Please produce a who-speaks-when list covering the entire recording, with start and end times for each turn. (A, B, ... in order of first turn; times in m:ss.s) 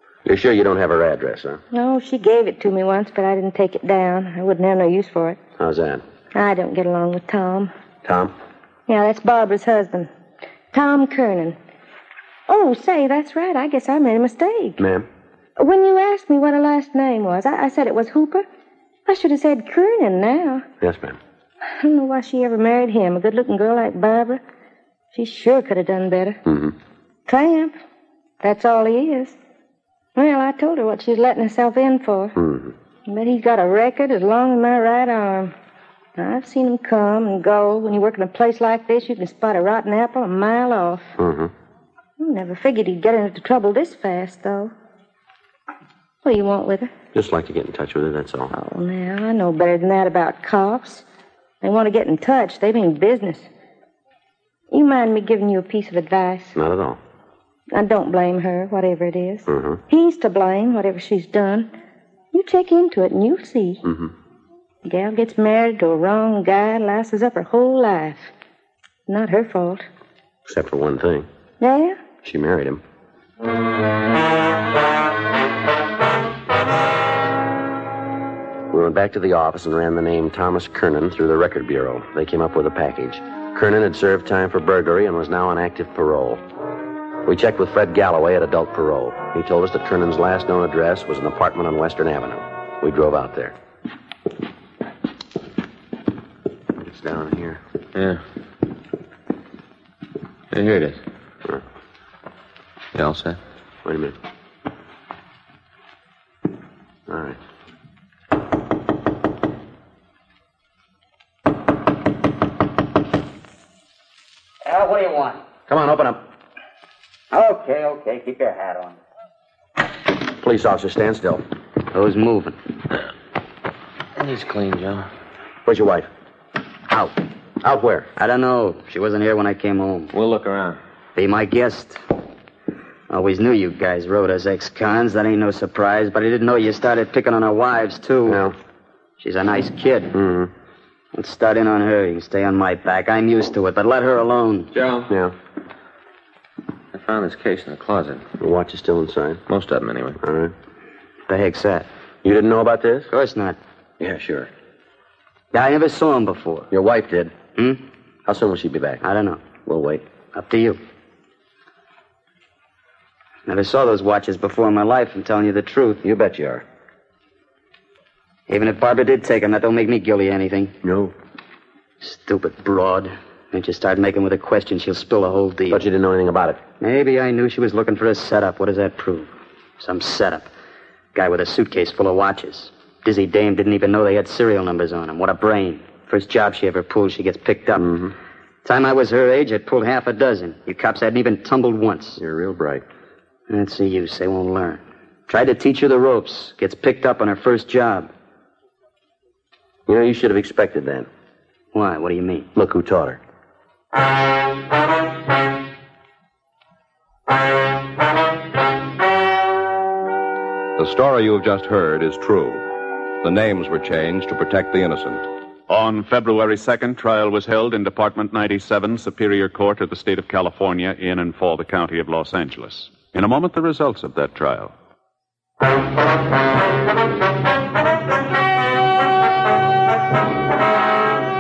0:00.2-0:01.6 A
0:01.7-0:05.4 B
0:05.6-0:06.0 A
0:06.3-0:07.7 B
0:08.0-0:08.4 A
0:08.9-0:10.1 B
0:10.7-0:11.6 B
0:12.5-0:14.8 B
0:14.8-0:15.1 A
0:15.6-0:18.4 B
0:19.1-0:20.7 B
0:20.8-0:21.2 A
0:21.7-0:24.4 B
0:25.1-0:26.4 B
0:26.5-0:26.8 A
0:27.3-0:27.7 B
0:28.4-0:29.4 B
0:30.2-0:32.4 B
0:32.4-0:32.7 A
0:33.1-0:35.5 B
0:36.2-0:41.1 B
0:41.2-0:41.5 A
0:42.2-0:44.7 B
0:46.2-0:46.9 B
0:47.1-0:48.5 A
0:48.5-0:51.0 B
0:51.6-0:53.5 B
0:54.7-0:56.6 B
0:56.6-0:57.0 A
0:57.7-1:01.7 B
0:59.5-0:59.8 A
1:02.3-1:03.8 B
1:03.8-1:04.1 A
1:04.8-1:08.3 B
1:09.1-1:09.9 B
1:10.5-1:11.3 A
1:11.6-1:12.0 B
1:12.2-1:12.8 A
1:18.7-1:26.4 A
1:27.2-1:33.6 A
1:36.8-1:37.6 A
1:38.0-1:38.2 C
1:40.5-1:41.0 C
1:42.9-1:43.4 C
1:43.8-1:44.2 A
1:47.1-1:47.4 A
1:54.6-1:55.4 D
1:55.7-1:56.2 A
1:57.3-1:59.0 D
2:00.3-2:01.4 A
2:01.9-2:02.6 D
2:04.2-2:05.1 C
2:05.6-2:06.1 A
2:06.9-2:07.2 D
2:07.6-2:08.1 A
2:08.2-2:10.1 D
2:10.1-2:10.8 C
2:11.2-2:12.0 D
2:13.1-2:18.4 D
2:18.3-2:18.6 A
2:19.2-2:20.2 D
2:20.1-2:20.5 A
2:21.1-2:24.7 D
2:24.7-2:25.1 C
2:25.1-2:25.4 A
2:26.9-2:28.2 C
2:28.4-2:29.4 A
2:29.5-2:30.2 C
2:30.2-2:30.6 A
2:31.3-2:31.9 D
2:32.2-2:33.1 A
2:33.1-2:33.6 D
2:34.0-2:34.5 A
2:35.5-2:36.7 D
2:36.7-2:37.4 A
2:37.6-2:37.8 D
2:38.3-2:39.0 A
2:39.0-2:39.4 D
2:39.7-2:40.0 A
2:40.3-2:40.8 D
2:43.5-2:46.0 D
2:46.0-2:46.6 A
2:48.5-2:50.7 D
2:50.8-2:51.1 A
2:52.0-2:55.9 D
2:55.7-2:56.6 A
2:56.8-3:00.5 D
3:01.2-3:08.0 D
3:07.8-3:08.1 A
3:08.6-3:12.2 D
3:12.2-3:12.8 A
3:13.5-3:18.1 D
3:19.9-3:21.1 A
3:21.7-3:22.5 D
3:22.6-3:23.2 A
3:30.8-3:32.6 E
3:33.2-3:35.2 E
3:35.7-3:44.7 F